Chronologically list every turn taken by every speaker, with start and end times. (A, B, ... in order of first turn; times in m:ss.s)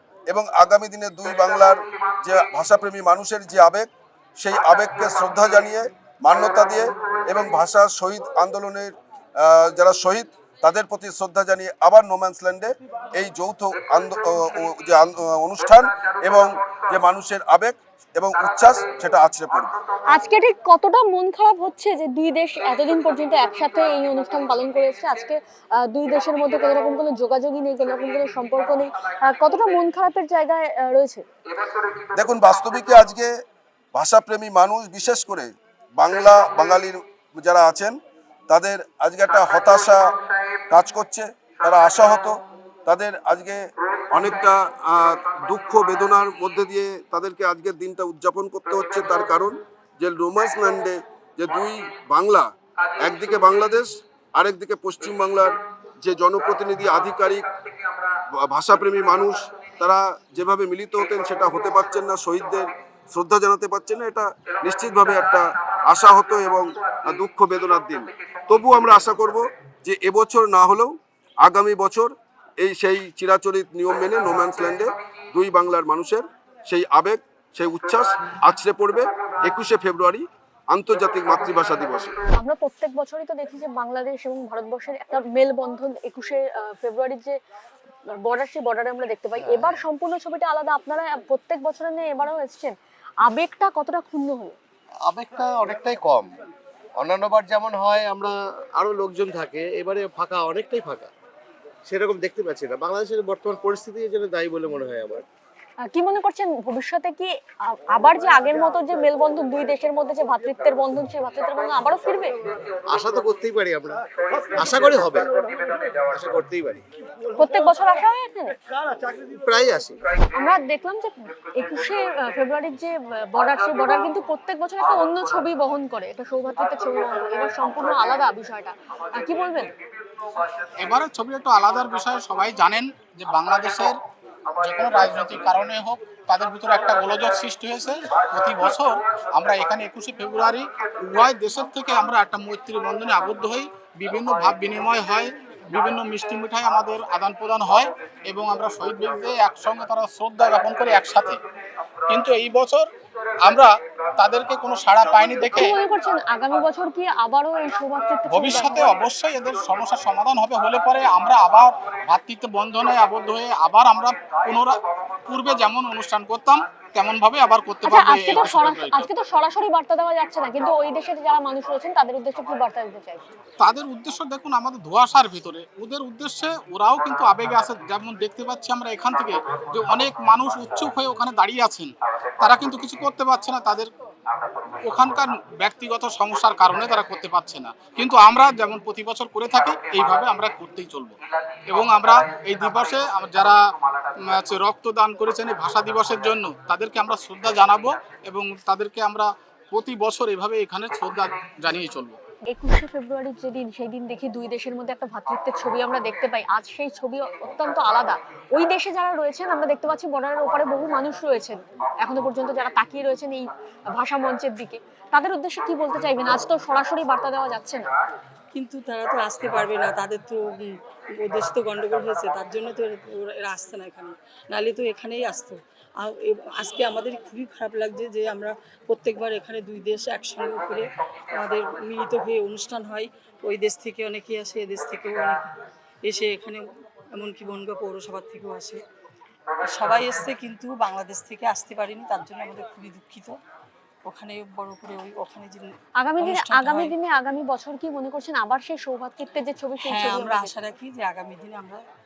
0:00.3-0:19.7 A
0:20.1-0:31.2 B
0:32.1-0:33.3 A
0:33.9-0:37.9 A
0:38.5-0:40.0 A
0:40.7-0:52.5 A
0:53.0-0:57.5 A
0:58.4-1:22.1 A
1:22.4-1:27.4 B
1:28.2-1:34.6 B
1:29.4-1:29.8 C
1:35.0-1:36.3 C
1:37.0-1:41.1 C
1:41.8-1:45.2 C
1:45.9-1:52.4 B
1:52.9-1:55.3 C
1:55.9-1:56.8 C
1:57.4-1:58.6 B
1:59.0-2:00.0 C
2:00.4-2:09.7 B
2:10.8-2:14.0 D
2:14.6-2:31.4 D
2:32.1-2:32.9 D
2:33.4-2:35.8 D
2:35.4-2:39.0 B
2:38.3-2:49.1 D
2:47.8-2:53.2 B
2:53.6-3:03.9 D
3:04.8-3:13.6 D
3:14.2-3:22.2 D
3:22.5-3:37.8 B
3:38.5-3:55.5 E
3:56.0-3:58.8 E
3:59.6-4:03.4 E
4:04.0-4:06.9 E
4:06.0-4:10.6 B
4:09.8-4:11.8 E